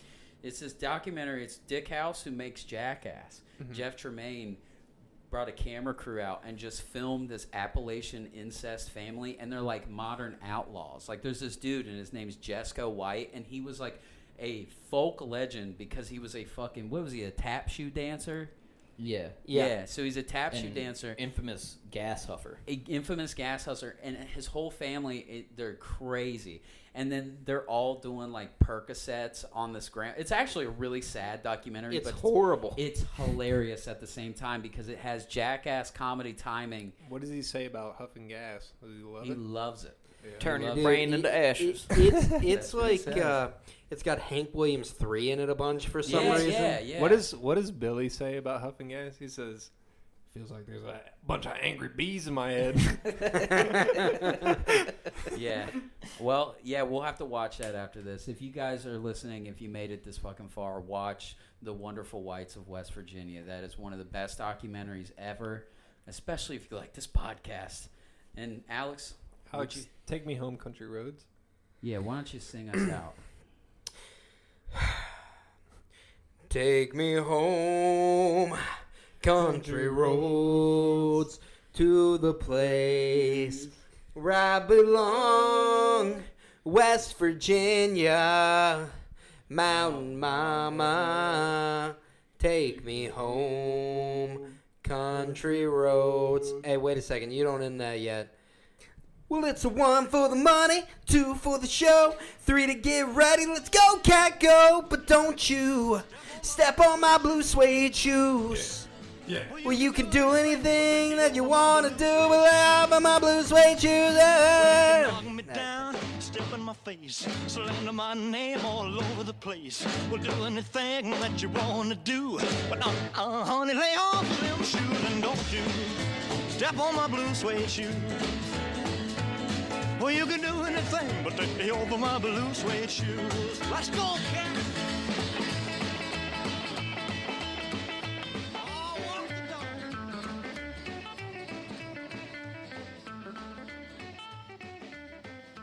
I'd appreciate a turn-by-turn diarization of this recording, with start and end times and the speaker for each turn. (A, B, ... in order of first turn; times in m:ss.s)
0:00.4-0:04.6 A
0:03.6-0:03.8 B
0:05.3-0:18.5 A
0:19.0-0:19.4 C
0:19.4-0:19.8 D
0:19.5-0:21.2 A
0:20.5-0:22.6 C
0:22.6-0:36.9 A
0:31.9-0:32.8 D
0:37.0-0:39.4 B
0:39.2-0:41.0 A
0:40.4-0:43.4 C
0:40.7-0:46.7 D
0:42.5-0:43.4 A
0:46.0-0:47.2 A
0:46.1-0:49.7 B
0:50.3-0:54.7 B
0:55.3-1:09.9 A
1:09.5-1:11.3 B
1:11.8-1:13.2 A
1:16.5-1:18.6 D
1:19.2-1:28.9 D
1:19.4-1:21.2 B
1:29.5-1:38.3 D
1:29.7-1:31.4 B
1:39.3-1:48.9 D
1:48.5-1:49.6 B
1:49.5-1:52.8 E
1:49.6-1:55.9 D
1:54.5-2:08.3 E
2:10.0-2:14.6 E
2:18.6-2:20.0 E